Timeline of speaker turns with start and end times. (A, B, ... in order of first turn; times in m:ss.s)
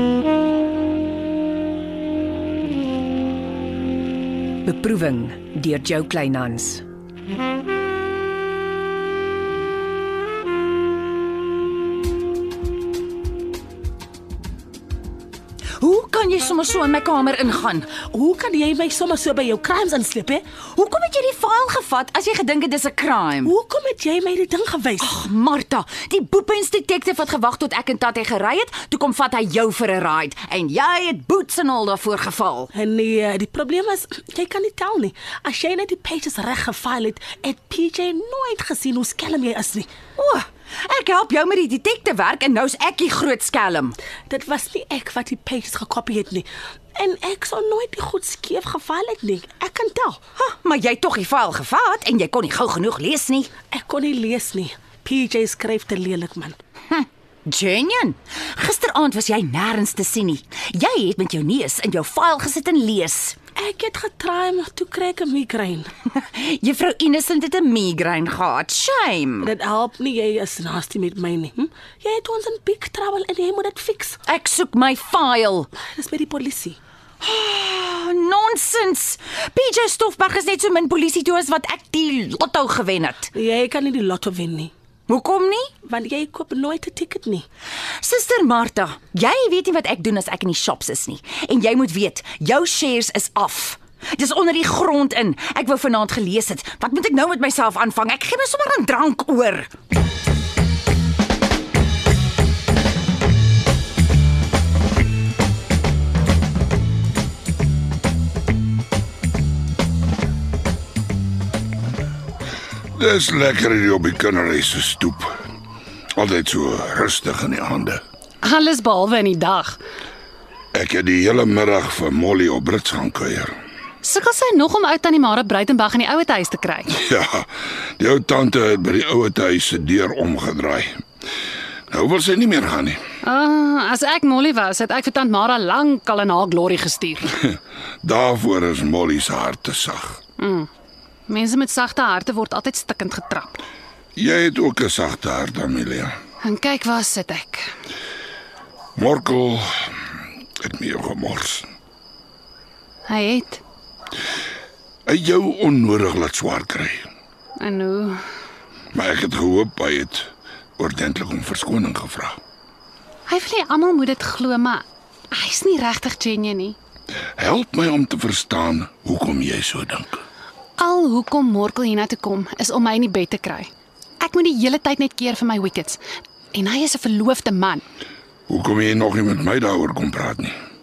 0:04.6-0:06.8 A
0:15.8-0:17.9 B
0:18.1-0:20.4 C
0:20.7-0:23.5 B
0:23.4-0:25.2 C
0:25.0-0:32.7 B
0:32.7-0:39.9 C
0:40.2-0:44.0 B
0:44.3-0:50.2 C
0:50.4-0:53.5 B
0:53.7-0:56.6 C
0:56.9-1:03.4 B
1:03.6-1:05.9 C
1:06.2-1:09.5 B
1:09.4-1:14.2 C
1:14.3-1:15.7 B
1:15.8-1:16.8 C
1:17.2-1:23.3 B
1:23.3-1:24.7 C
1:25.1-1:25.7 B
1:25.8-1:27.4 C
1:28.0-1:39.7 B
1:53.0-1:55.3 D
1:56.2-1:58.0 D
1:58.4-1:59.8 E
2:00.7-2:03.5 D
2:04.0-2:06.9 E
2:06.9-2:07.5 D
2:08.0-2:10.9 D
2:11.9-2:13.0 D
2:13.2-2:17.3 E
2:17.4-2:20.2 D
2:20.4-2:20.7 E
2:21.3-2:23.6 E
2:24.2-2:26.1 D
2:26.4-2:27.7 E
2:29.0-2:29.9 D
2:30.6-2:31.7 D
2:33.1-2:33.6 E
2:35.1-2:37.0 D
2:37.6-2:38.2 E
2:38.9-2:42.4 D
2:43.3-2:46.8 E
2:47.4-2:50.2 D
2:50.8-2:53.7 E
2:54.2-2:56.0 E
2:56.5-2:57.8 E
2:58.5-3:00.6 D